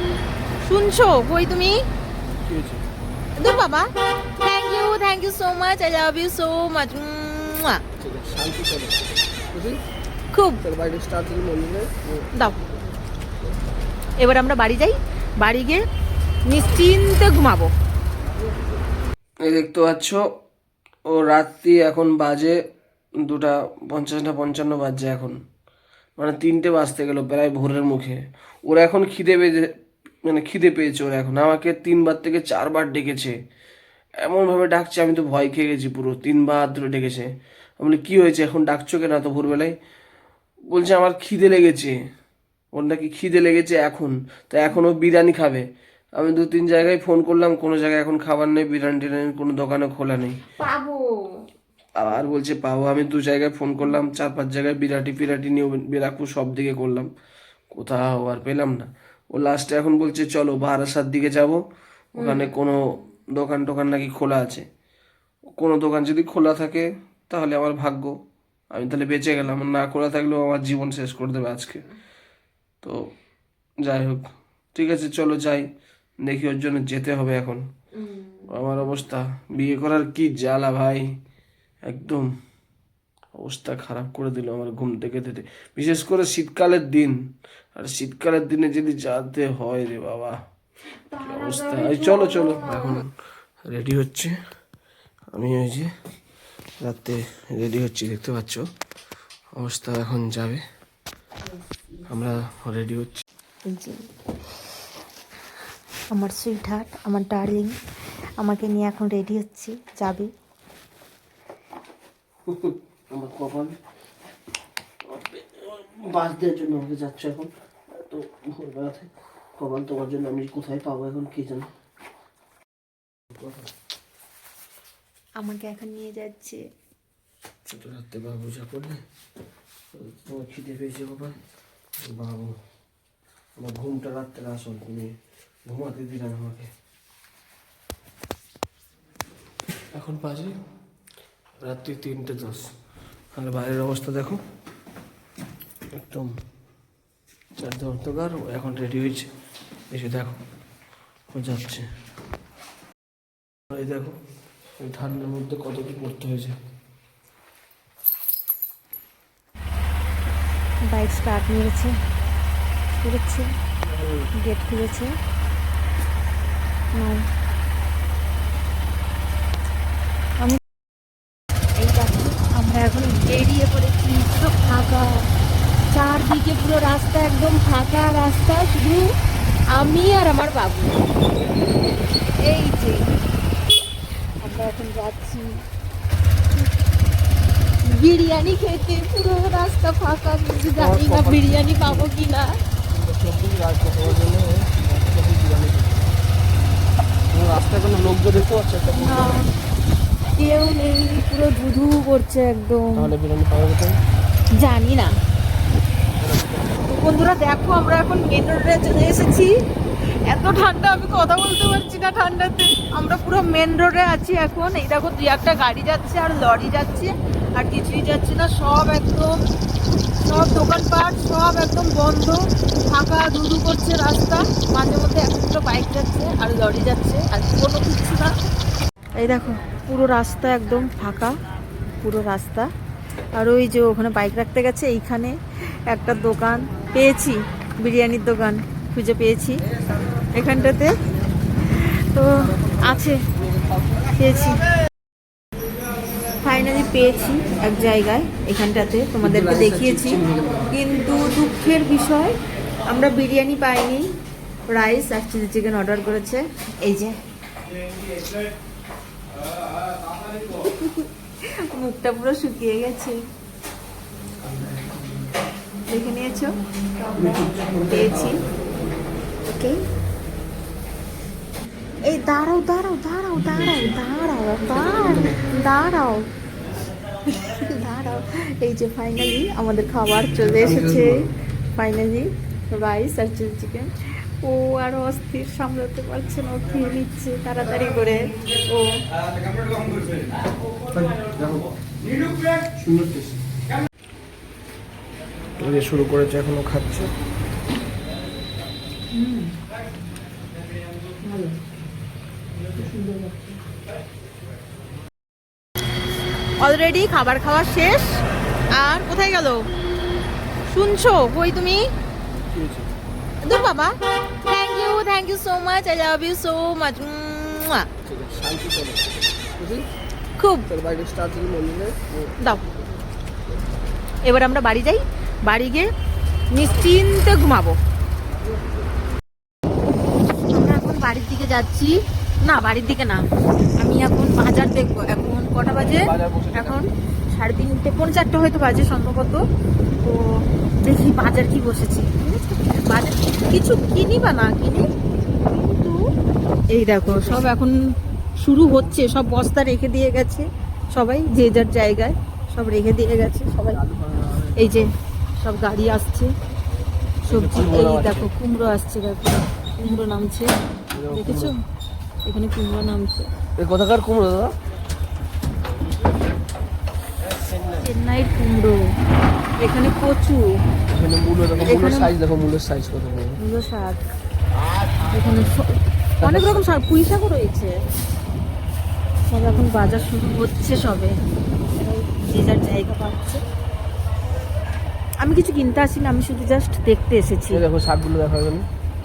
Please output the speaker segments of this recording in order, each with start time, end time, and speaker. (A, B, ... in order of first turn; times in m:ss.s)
0:00.6-0:01.8 A
0:02.4-0:02.8 B
0:03.4-0:07.8 A
0:08.0-0:09.0 B
0:09.5-0:09.8 B
0:10.3-0:10.6 A
0:10.6-0:12.3 B
0:14.2-0:15.8 A
0:16.4-0:17.7 A
0:19.4-0:20.2 B
0:21.1-0:22.6 B
0:23.2-0:25.4 B
0:26.2-0:29.7 B
0:30.2-0:33.4 B
0:34.2-0:39.7 B
0:40.7-0:42.0 B
0:42.7-0:50.5 B
0:50.5-0:51.4 A
0:52.0-0:57.1 B
0:57.7-1:01.6 B
1:02.1-1:04.6 B
1:05.6-1:08.1 B
1:08.7-1:11.8 B
1:13.8-1:15.7 B
1:16.2-1:17.6 B
1:18.4-1:21.1 B
1:21.9-1:22.3 B
1:23.3-1:27.2 B
1:27.8-1:30.4 B
1:31.1-1:33.0 A
1:31.2-1:33.1 B
1:33.7-1:34.3 B
1:35.3-1:35.9 B
1:36.8-1:38.6 B
1:39.6-1:40.6 B
1:41.5-1:42.1 A
1:42.1-1:43.2 B
1:43.7-1:44.0 A
1:46.1-1:47.7 A
1:48.4-1:50.3 A
1:52.4-1:53.8 B
1:55.0-2:01.7 B
2:03.3-2:03.7 B
2:05.4-2:06.6 A
2:07.7-2:09.0 B
2:09.9-2:11.3 B
2:12.0-2:12.6 B
2:13.6-2:15.1 B
2:15.6-2:16.7 B
2:19.9-2:20.5 B
2:21.6-2:22.7 B
2:23.3-2:24.4 B
2:26.0-2:26.3 B
2:27.6-2:29.3 B
2:29.9-2:30.4 B
2:31.3-2:31.8 B
2:33.7-2:34.1 B
2:34.8-2:36.5 B
2:40.9-2:41.9 A
2:43.0-2:43.5 A
2:43.9-2:44.2 B
2:44.4-2:45.1 A
2:46.9-2:47.2 A
2:51.8-2:55.2 A
2:55.9-2:59.0 A
2:59.7-3:01.0 A
3:02.4-3:03.1 A
3:04.4-3:05.6 A
3:07.8-3:12.5 A
3:10.7-3:12.1 B
3:12.9-3:16.1 B
3:17.3-3:19.4 B
3:19.0-3:19.5 A
3:20.4-3:23.1 A
3:22.9-3:24.0 B
3:24.5-3:25.1 A
3:26.8-3:29.5 A
3:30.1-3:39.4 A
3:40.2-3:48.3 A
3:49.2-3:51.3 A
3:52.0-3:52.7 A
3:53.4-3:55.3 A
3:55.9-3:59.6 A
4:00.3-4:01.0 A
4:01.7-4:03.2 A
4:02.4-4:04.1 B
4:04.1-4:04.6 A
4:06.4-4:14.1 A
4:09.2-4:10.7 B
4:14.7-4:17.2 A
4:20.5-4:23.2 A
4:25.9-4:28.4 A
4:29.5-4:29.8 A
4:32.1-4:36.3 A
4:34.8-4:35.4 B
4:37.3-4:49.0 A
4:40.4-4:41.3 B
4:50.9-4:51.7 B
4:52.8-4:53.4 B
4:55.6-4:57.1 B
4:59.1-4:59.5 A
5:01.2-5:01.6 A
5:02.8-5:03.6 A
5:06.6-5:09.6 A
5:10.7-5:11.9 A
5:12.5-5:12.9 B
5:13.4-5:17.9 A
5:18.0-5:19.8 B
5:20.4-5:20.7 A
5:20.7-5:22.3 B
5:24.2-5:25.9 A
5:26.5-5:27.8 A
5:30.5-5:31.9 A
5:32.4-5:33.2 A
5:33.8-5:39.4 A
5:36.0-5:36.8 B
5:40.0-5:44.9 A
5:45.4-5:46.0 A
5:46.7-5:47.7 A
5:47.0-5:47.4 B
5:48.4-5:53.8 A
5:53.7-5:54.9 B
5:54.6-5:56.3 A
5:57.2-5:58.3 B
5:57.3-6:00.5 A
6:00.9-6:01.5 B
6:01.1-6:01.6 A
6:02.2-6:03.3 A
6:03.6-6:04.5 B
6:07.7-6:08.8 A
6:09.6-6:10.4 A
6:10.9-6:13.4 B
6:11.6-6:12.1 A
6:13.4-6:14.0 A
6:15.1-6:17.7 A
6:16.2-6:16.6 B
6:19.3-6:21.2 A
6:19.4-6:20.1 B
6:21.8-6:23.4 A
6:25.2-6:27.6 A
6:27.5-6:28.7 B